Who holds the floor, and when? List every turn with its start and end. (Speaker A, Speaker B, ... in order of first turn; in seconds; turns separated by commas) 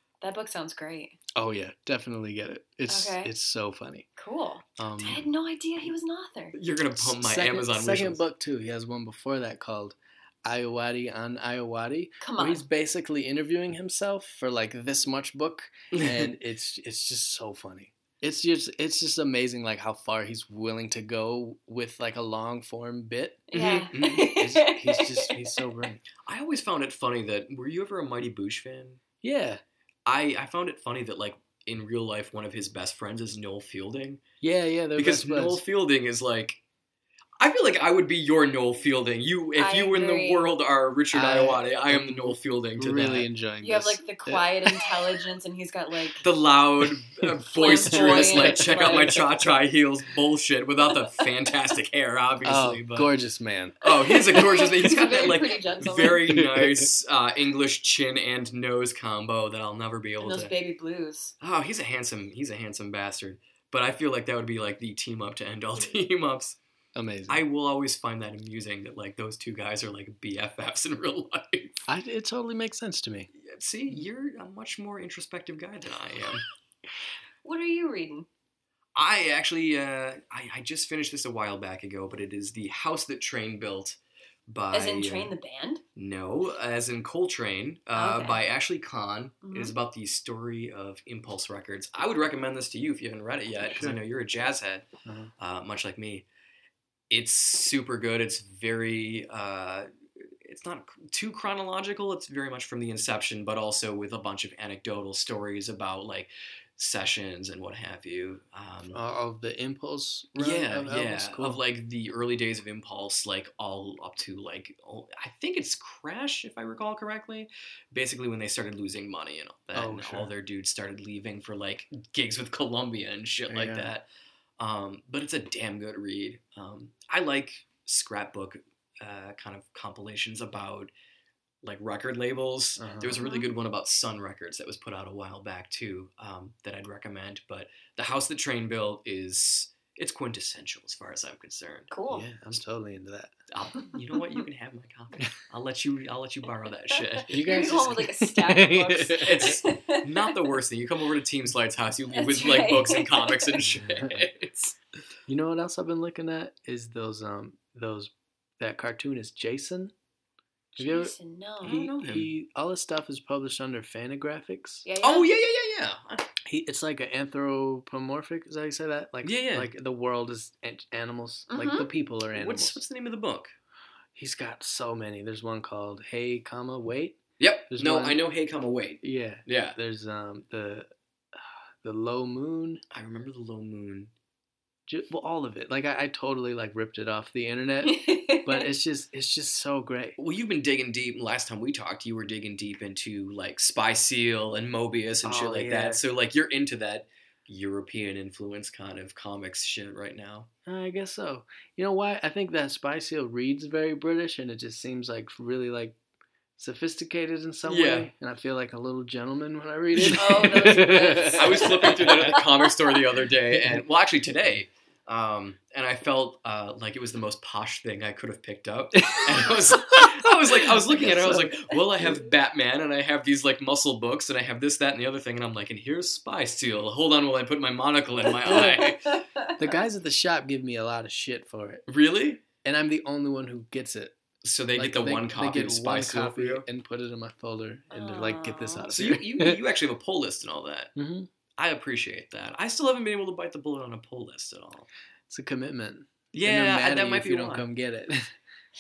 Speaker A: 0.2-1.2, Speaker B: 1.4-4.1, Speaker A: 2.9-3.3, Speaker A: 4.2-6.5, Speaker C: 4.8-5.2, Speaker C: 6.5-8.2, Speaker B: 7.0-26.0, Speaker A: 12.2-12.6, Speaker C: 15.9-16.3, Speaker A: 23.5-25.3, Speaker C: 23.6-24.3, Speaker C: 26.2-29.0, Speaker B: 29.2-29.6, Speaker C: 30.1-34.2, Speaker B: 34.4-35.6, Speaker C: 35.0-36.6, Speaker C: 37.4-43.3, Speaker A: 39.6-40.5, Speaker B: 41.1-44.8, Speaker A: 43.6-46.2, Speaker C: 46.2-53.1, Speaker A: 47.5-49.2, Speaker B: 47.6-49.2, Speaker B: 52.4-54.5, Speaker C: 53.8-60.5, Speaker A: 53.9-56.2, Speaker B: 55.9-56.9, Speaker A: 60.2-61.3, Speaker C: 61.4-66.6, Speaker B: 66.9-67.4, Speaker C: 67.3-71.8, Speaker B: 71.9-73.3, Speaker C: 73.3-76.4, Speaker A: 77.4-78.3, Speaker C: 78.9-85.3, Speaker A: 84.7-85.8, Speaker C: 86.0-94.8, Speaker A: 87.9-88.4, Speaker A: 89.4-89.7, Speaker B: 93.6-94.0, Speaker B: 95.0-95.3, Speaker C: 95.4-96.2, Speaker C: 97.1-99.9, Speaker C: 100.4-109.0, Speaker B: 108.9-111.6, Speaker C: 110.3-124.0, Speaker B: 119.7-120.3, Speaker B: 123.5-123.9, Speaker C: 124.6-130.9, Speaker C: 131.6-141.9, Speaker B: 132.8-133.2, Speaker A: 133.1-133.5, Speaker A: 141.9-142.3, Speaker B: 142.1-143.3, Speaker C: 143.5-147.9, Speaker A: 143.8-144.4, Speaker A: 146.9-150.4, Speaker B: 147.3-149.6, Speaker C: 149.2-154.8, Speaker A: 152.1-153.6, Speaker B: 153.6-154.2, Speaker B: 155.3-159.9, Speaker A: 160.8-161.8, Speaker B: 160.8-164.8, Speaker C: 161.6-162.3, Speaker A: 164.8-165.3, Speaker C: 165.0-166.3, Speaker B: 166.4-172.8, Speaker C: 169.2-169.7, Speaker A: 171.5-171.9, Speaker C: 172.3-173.5, Speaker B: 174.1-177.2, Speaker C: 177.4-179.8, Speaker B: 177.7-178.2, Speaker B: 179.0-182.8, Speaker C: 182.9-184.1, Speaker B: 184.9-190.2, Speaker A: 187.8-188.7, Speaker C: 190.2-200.5, Speaker B: 195.2-196.0, Speaker B: 200.7-206.0, Speaker B: 206.6-212.4, Speaker C: 207.7-208.1, Speaker C: 209.9-229.0, Speaker A: 210.1-212.6, Speaker B: 219.0-221.6, Speaker A: 228.3-229.6, Speaker B: 228.4-228.9, Speaker B: 229.6-231.8, Speaker C: 231.9-232.4, Speaker B: 232.6-234.2, Speaker C: 234.4-236.7, Speaker B: 234.8-239.6, Speaker A: 237.9-238.9, Speaker C: 238.9-240.9, Speaker B: 240.9-241.3, Speaker C: 241.6-244.9, Speaker B: 245.3-248.3, Speaker C: 246.3-247.7